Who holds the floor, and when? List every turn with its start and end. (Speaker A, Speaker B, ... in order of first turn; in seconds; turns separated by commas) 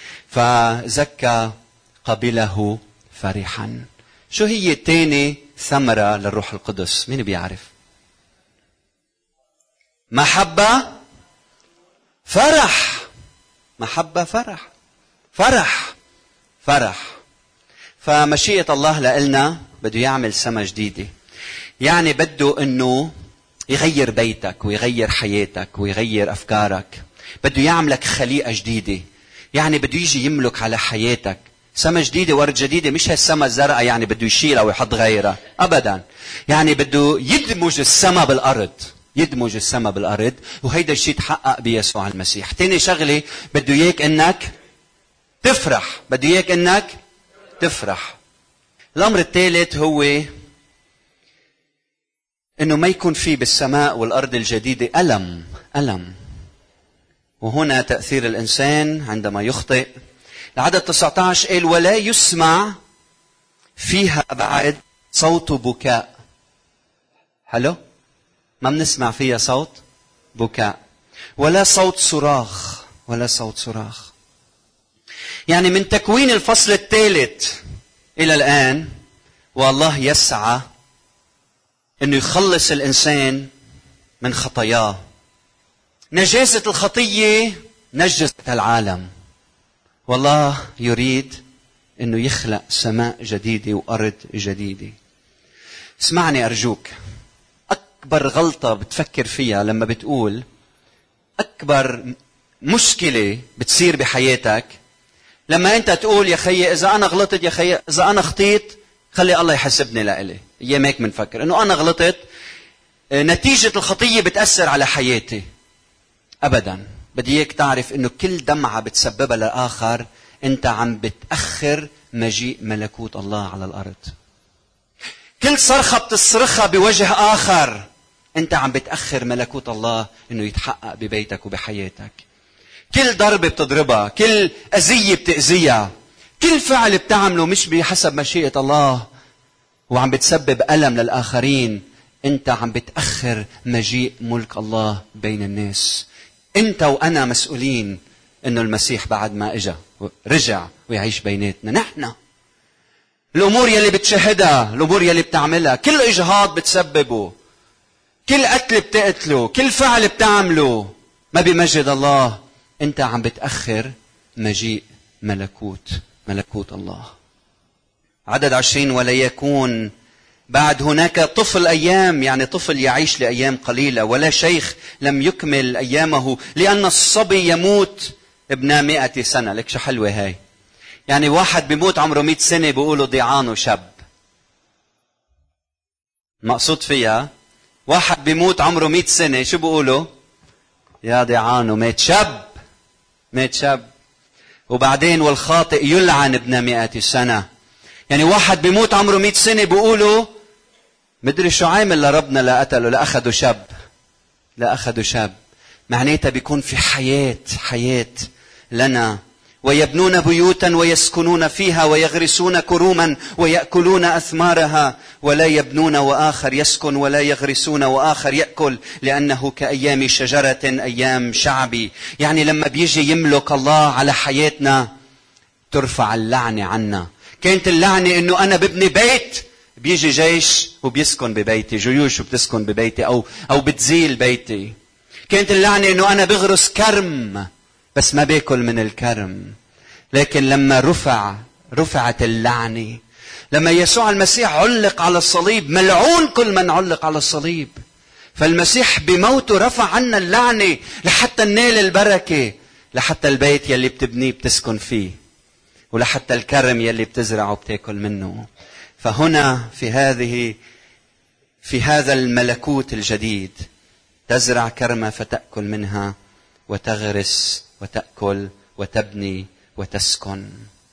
Speaker A: 0.3-7.7, Speaker A: 10.1-11.0, Speaker A: 12.3-13.1, Speaker A: 13.8-14.7, Speaker A: 15.3-15.9, Speaker A: 16.6-17.1, Speaker A: 18.0-21.1, Speaker A: 21.8-23.1, Speaker A: 23.7-29.0, Speaker A: 29.5-44.5, Speaker A: 45.4-47.0, Speaker A: 47.6-48.2, Speaker A: 49.0-50.3, Speaker A: 52.6-56.1, Speaker A: 57.4-59.9, Speaker A: 60.6-62.8, Speaker A: 63.8-66.1, Speaker A: 67.5-67.8, Speaker A: 68.6-69.8, Speaker A: 70.3-70.8, Speaker A: 71.4-74.1, Speaker A: 75.5-77.6, Speaker A: 78.2-78.9, Speaker A: 79.6-80.6, Speaker A: 82.0-83.5, Speaker A: 84.2-85.0, Speaker A: 86.1-89.1, Speaker A: 90.1-91.4, Speaker A: 92.0-95.0, Speaker A: 96.0-96.9, Speaker A: 97.7-100.4, Speaker A: 101.4-102.1, Speaker A: 102.7-104.7, Speaker A: 105.5-112.2, Speaker A: 113.1-115.4, Speaker A: 116.4-124.1, Speaker A: 125.4-127.9, Speaker A: 128.4-132.2, Speaker A: 132.9-139.1, Speaker A: 139.9-152.2, Speaker A: 153.3-157.3, Speaker A: 158.3-167.1, Speaker A: 168.3-169.9, Speaker A: 170.5-180.4, Speaker A: 181.1-183.9, Speaker A: 186.4-187.3, Speaker A: 187.9-190.1, Speaker A: 191.0-192.5, Speaker A: 193.3-193.9, Speaker A: 194.7-197.4, Speaker A: 198.1-200.3, Speaker A: 201.2-203.7, Speaker A: 204.6-205.3, Speaker A: 205.9-224.9, Speaker A: 225.7-234.8, Speaker A: 235.3-239.5, Speaker A: 240.1-243.0, Speaker A: 243.5-247.8, Speaker A: 248.4-255.1, Speaker A: 255.9-258.5, Speaker A: 259.0-260.6, Speaker A: 261.6-263.6, Speaker A: 264.3-266.1, Speaker A: 266.7-270.6